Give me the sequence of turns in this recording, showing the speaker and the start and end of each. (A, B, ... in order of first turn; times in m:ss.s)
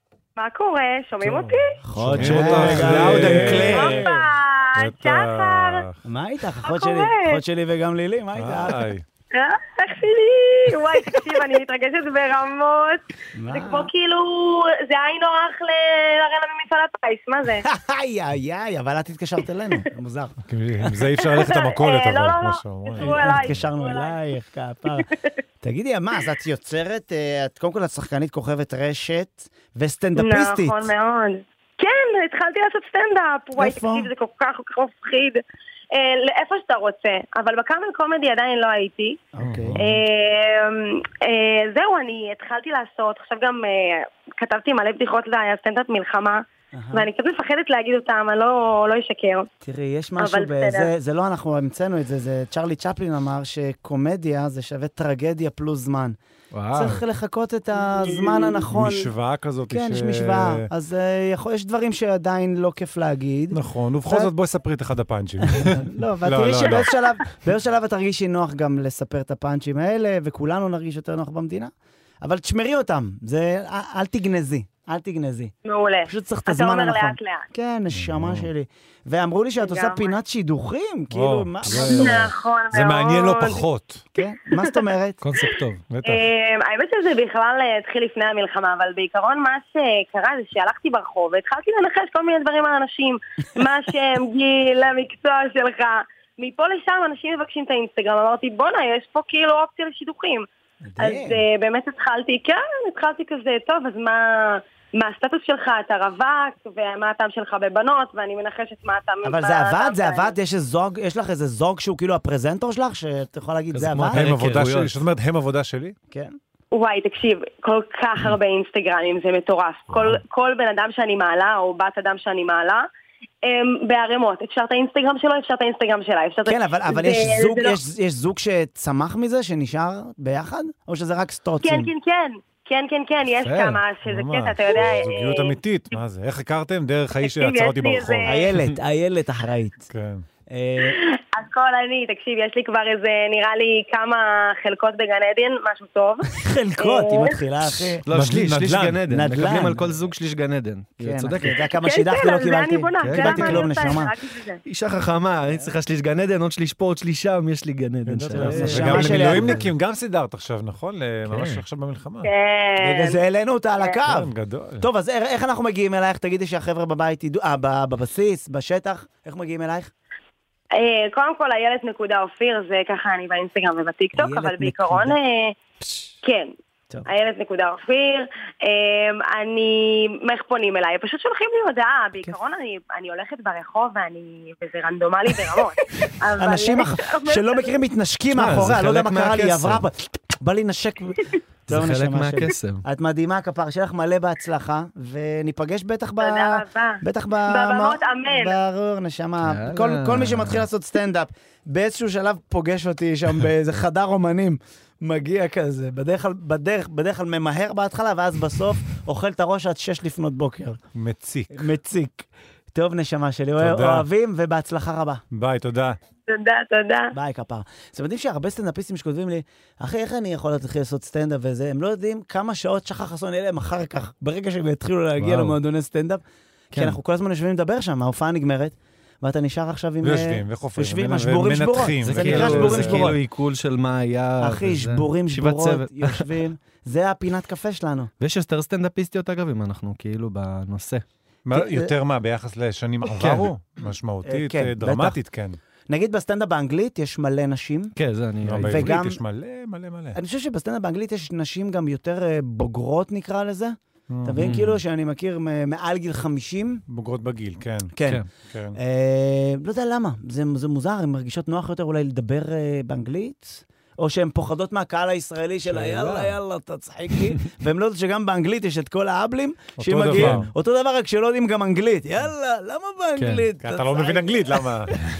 0:00.4-0:01.8 A
0:01.2-0:04.0 B
0:01.8-0:04.2 C
0:02.0-0:03.9 D
0:03.7-0:05.8 A
0:04.8-0:06.0 B
0:06.0-0:08.8 C
0:06.6-0:07.4 A
0:08.3-0:09.0 B
0:09.3-0:17.6 A
0:13.3-0:13.9 C
0:17.6-0:20.4 C
0:20.5-0:23.6 B
0:21.2-0:24.2 A
0:23.0-0:25.1 C
0:25.0-0:25.3 A
0:25.6-0:30.9 C
0:30.2-0:39.2 A
0:33.6-0:34.1 C
0:39.3-0:39.8 C
0:39.4-0:39.8 B
0:39.8-0:49.5 A
0:46.7-0:47.1 C
0:49.6-0:56.2 C
0:50.2-0:50.9 A
0:56.5-0:57.0 D
0:56.7-0:59.1 C
0:58.7-1:00.7 B
0:59.7-1:04.3 C
1:03.5-1:07.0 B
1:05.5-1:15.5 C
1:15.6-1:17.4 A
1:16.0-1:22.3 C
1:17.9-1:18.5 B
1:19.6-1:20.1 A
1:21.1-1:24.0 B
1:21.8-1:23.6 A
1:24.1-1:25.2 C
1:24.2-1:24.9 A
1:25.2-1:25.8 D
1:25.9-1:26.2 B
1:26.0-1:40.4 A
1:40.8-1:41.4 C
1:41.0-1:50.3 A
1:49.2-1:54.2 C
1:53.7-1:55.0 D
1:54.1-1:55.9 B
1:56.1-1:56.4 C
1:56.7-2:02.8 A
2:03.4-2:07.8 A
2:06.4-2:11.9 C
2:11.6-2:16.0 A
2:13.4-2:13.8 D
2:14.0-2:18.2 B
2:17.2-2:18.4 A
2:18.2-2:19.9 C
2:19.9-2:20.2 B
2:20.5-2:21.0 C
2:20.9-2:27.4 A
2:26.3-2:28.0 C
2:28.0-2:31.6 D
2:28.1-2:29.0 B
2:29.1-2:29.8 C
2:31.0-2:34.1 C
2:31.7-2:34.6 A
2:33.0-2:33.7 D
2:34.6-2:39.7 D
2:38.1-2:42.3 B
2:38.3-2:39.6 C
2:41.2-2:41.6 D
2:42.2-2:43.2 A
2:42.8-2:44.3 C
2:44.1-2:44.8 B
2:44.8-2:49.9 C
2:50.8-2:55.6 A
2:54.1-2:55.2 C
2:56.2-2:56.5 A
2:57.0-3:07.8 A
3:06.4-3:30.8 C
3:08.3-3:09.8 D
3:11.7-3:12.8 D
3:16.2-3:18.6 A
3:19.4-3:20.6 D
3:30.9-3:31.7 B
3:31.5-3:35.2 C
3:33.6-3:34.0 B
3:35.3-3:36.0 B
3:36.3-3:37.1 A
3:37.1-3:46.2 C
3:45.2-3:45.6 D
3:46.7-3:47.0 D
3:46.7-3:53.1 C
3:50.0-3:53.1 B
3:52.0-3:56.3 D
3:54.4-3:58.1 C
3:58.2-4:01.0 D
4:01.4-4:05.6 B
4:01.5-4:01.9 C
4:03.1-4:03.5 D
4:04.2-4:05.2 C
4:05.9-4:07.9 C
4:08.0-4:09.0 D
4:08.4-4:10.2 B
4:08.6-4:09.2 C
4:10.1-4:16.8 C
4:14.1-4:14.5 B
4:14.3-4:14.8 D
4:16.9-4:17.9 B
4:17.9-4:18.2 C
4:18.4-4:18.8 B
4:18.7-4:34.7 C
4:25.7-4:26.3 B
4:29.8-4:30.5 B
4:30.1-4:30.5 D
4:33.2-4:33.4 D
4:33.6-4:34.9 B